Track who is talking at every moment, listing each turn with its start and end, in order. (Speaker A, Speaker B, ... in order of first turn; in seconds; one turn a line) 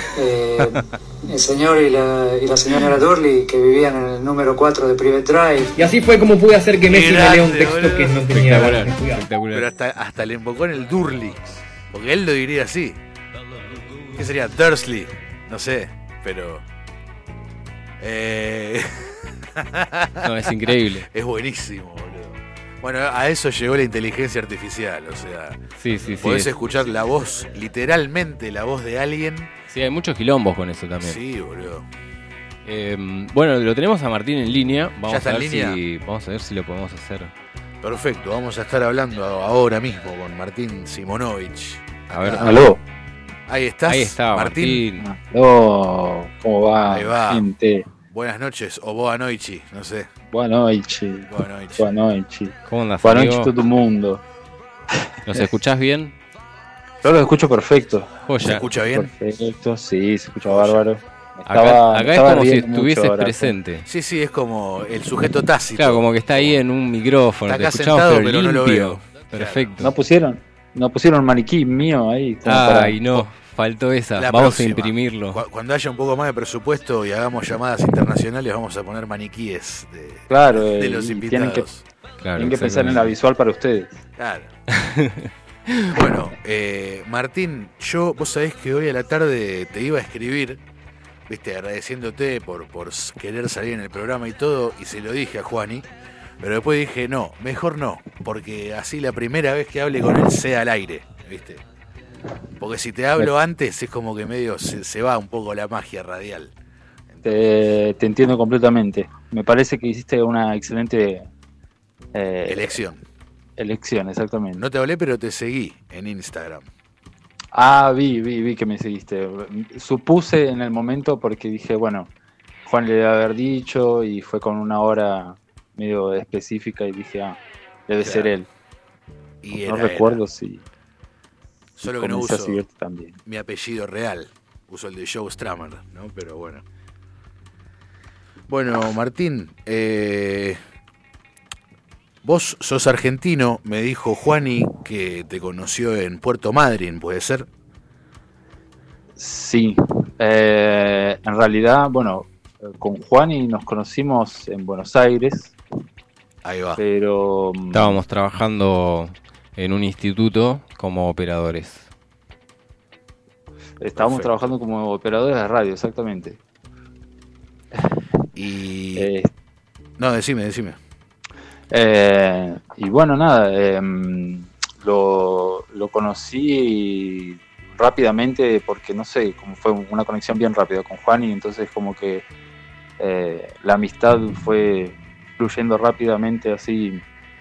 Speaker A: 0.1-5.7
Speaker B: 5.8-9.2
Speaker C: 6.8-8.3
Speaker D: 8.3-9.7
Speaker C: 9.5-13.0
Speaker C: 14.1-16.6
Speaker C: 18.0-20.3
Speaker D: 20.2-21.1
Speaker C: 21.0-25.6
Speaker D: 25.8-26.5
Speaker C: 26.2-29.5
Speaker D: 29.7-31.2
Speaker C: 31.0-31.9
Speaker D: 32.6-37.3
Speaker C: 35.1-35.8
Speaker C: 37.8-42.7
Speaker D: 42.1-42.6
Speaker E: 42.4-42.8
Speaker C: 43.5-44.8
Speaker D: 43.9-45.0
Speaker E: 45.0-47.9
Speaker C: 46.8-47.5
Speaker C: 48.1-50.1
Speaker E: 50.3-54.2
Speaker C: 51.3-51.9
Speaker D: 52.6-53.5
Speaker D: 55.2-56.1
Speaker E: 57.0-58.2
Speaker D: 58.2-58.6
Speaker C: 58.4-59.1
Speaker E: 58.9-63.5
Speaker C: 60.5-60.8
Speaker D: 61.5-63.9
Speaker C: 63.9-66.6
Speaker D: 65.8-69.9
Speaker C: 67.5-69.7
Speaker E: 69.8-73.2
Speaker D: 72.4-75.4
Speaker C: 74.2-81.8
Speaker E: 80.3-81.7
Speaker D: 82.2-83.1
Speaker E: 82.3-84.0
Speaker C: 84.2-84.5
Speaker D: 84.7-85.9
Speaker C: 85.9-90.6
Speaker C: 91.3-95.9
Speaker C: 96.4-101.6
Speaker C: 102.6-106.5
Speaker C: 107.1-107.3
Speaker E: 107.2-111.3
Speaker E: 112.1-112.8
Speaker C: 112.5-113.0
Speaker E: 113.6-114.6
Speaker C: 114.6-116.7
Speaker E: 117.5-122.1
Speaker E: 122.7-128.5
Speaker C: 128.0-128.3
Speaker C: 129.4-130.2
Speaker E: 129.7-130.6
Speaker C: 131.8-132.6
Speaker E: 131.8-133.2
Speaker C: 133.2-136.6
Speaker C: 138.5-140.6
Speaker C: 142.2-147.5
Speaker E: 149.2-155.5
Speaker C: 156.4-156.8
Speaker E: 156.8-158.0
Speaker D: 157.7-161.9
Speaker E: 163.8-166.4
Speaker C: 163.9-164.3
Speaker C: 168.3-169.1
Speaker E: 168.9-169.3
Speaker C: 170.0-170.8
Speaker E: 171.7-182.2
Speaker E: 183.0-187.0